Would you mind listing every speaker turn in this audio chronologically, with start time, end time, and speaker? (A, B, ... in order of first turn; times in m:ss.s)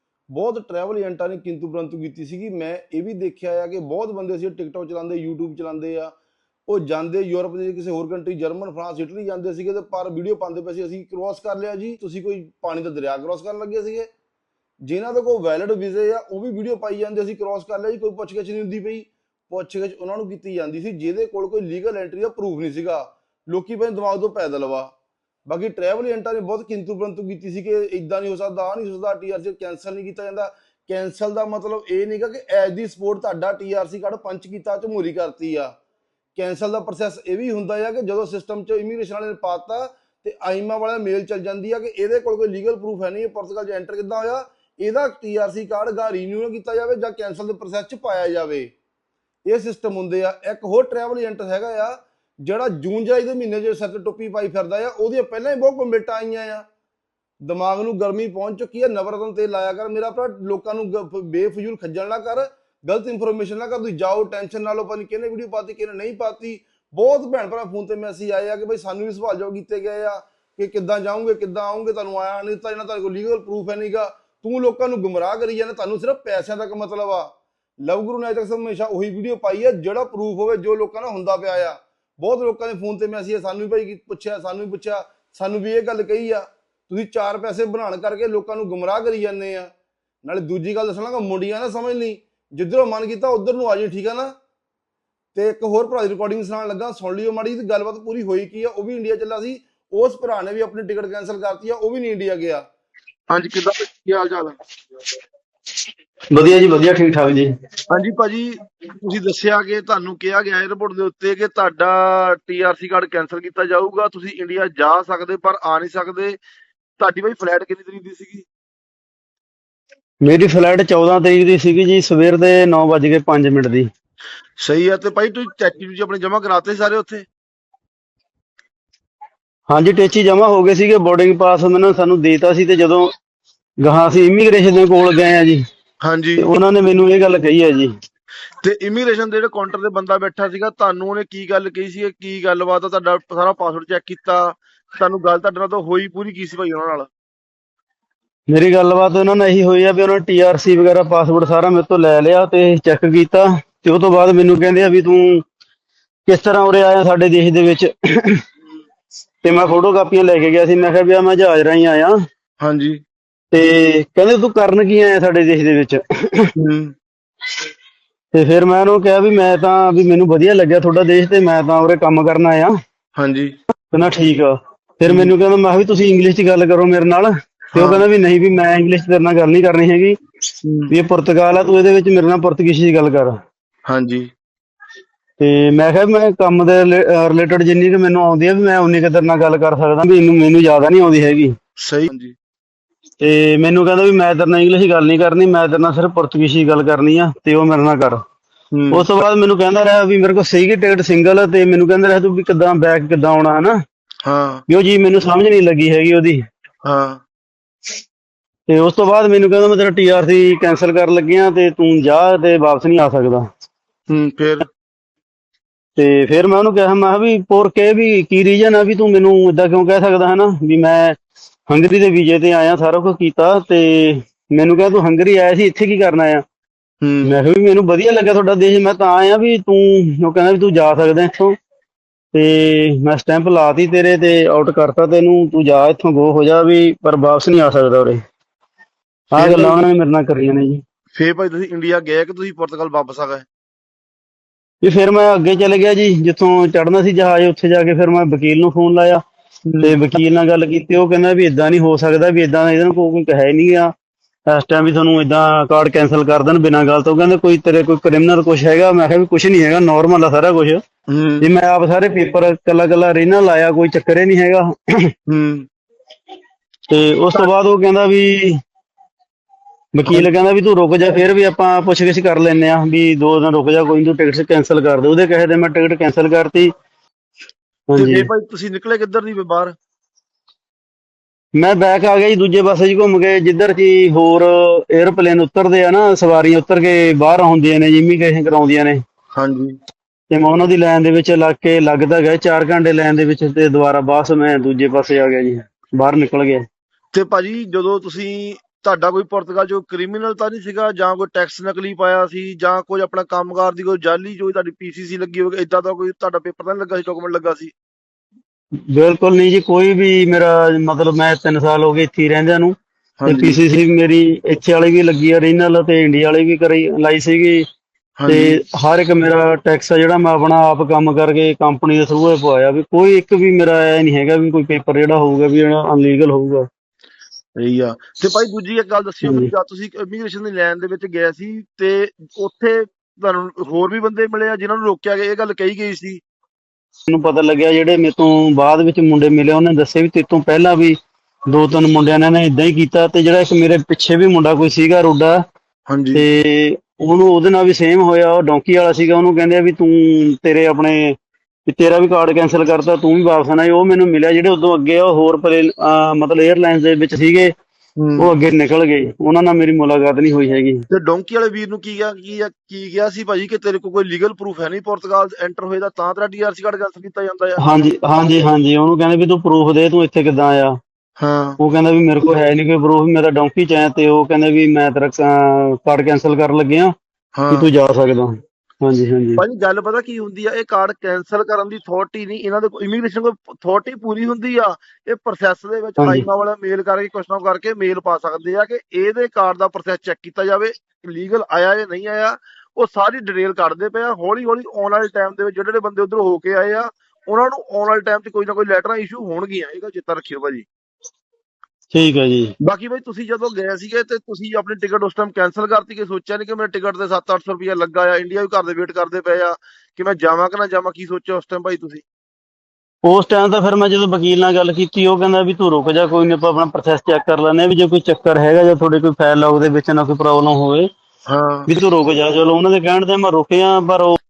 0:00.3-0:06.1 A
0:06.7-0:14.1 A
0:14.8-0:24.9 A
0:25.5-0:35.7 A
0:36.4-0:48.7 A
0:49.5-0:56.6 A
0:57.4-1:17.3 A
1:17.8-1:29.7 A
1:30.2-1:34.3 A
1:35.4-1:42.6 A
1:43.3-1:44.5 B
1:46.3-1:47.5 C
1:47.9-1:56.4 B
1:57.0-1:58.5 B
2:00.2-2:03.9 C
2:04.6-2:07.3 B
2:09.7-2:13.1 C
2:13.8-2:15.6 C
2:16.0-2:16.4 B
2:16.4-2:17.9 C
2:18.6-2:27.1 B
2:28.5-2:35.4 C
2:36.3-2:38.4 C
2:39.4-2:42.2 C
2:42.6-2:43.0 B
2:43.5-2:46.5 C
2:48.3-2:52.7 C
2:53.2-2:53.5 B
2:53.9-3:00.2 C
3:00.9-3:03.3 C
3:03.9-3:04.2 B
3:05.4-3:11.5 C
3:11.8-3:12.3 B
3:13.2-3:18.2 C
3:18.9-3:23.8 C
3:24.3-3:24.6 B
3:24.7-3:26.4 C
3:26.9-3:27.2 B
3:28.7-3:33.4 C
3:34.1-3:34.6 B
3:36.0-3:41.2 C
3:41.7-3:46.4 C
3:47.2-3:51.5 C
3:52.3-3:58.2 C
3:59.3-4:00.8 C
3:59.4-3:59.7 B
4:01.2-4:03.5 B
4:04.8-4:09.2 C
4:09.8-4:13.9 C
4:14.5-4:20.8 C
4:21.4-4:25.1 C
4:26.9-4:28.6 C
4:30.0-4:36.7 C
4:37.9-4:38.3 C
4:38.0-4:39.7 B
4:41.6-4:49.0 C
4:49.4-4:49.7 B
4:50.3-4:56.6 C
4:57.1-5:07.7 B
5:08.9-5:12.7 C
5:13.3-5:17.6 C
5:18.3-5:26.7 C
5:27.6-5:36.2 B
5:29.2-5:29.5 C
5:37.1-5:41.0 C
5:41.5-5:45.4 C
5:45.9-5:46.2 B
5:46.1-5:57.5 C
5:58.2-6:00.8 C
6:00.9-6:07.6 B
6:07.6-6:10.8 C
6:11.2-6:11.6 B
6:11.6-6:16.9 C
6:17.5-6:19.4 C
6:19.4-6:40.7 B
6:26.0-6:26.3 C
6:41.9-6:42.5 C
6:42.6-6:52.0 B
6:53.0-7:00.9 C
7:01.3-7:01.6 B
7:01.7-7:04.2 C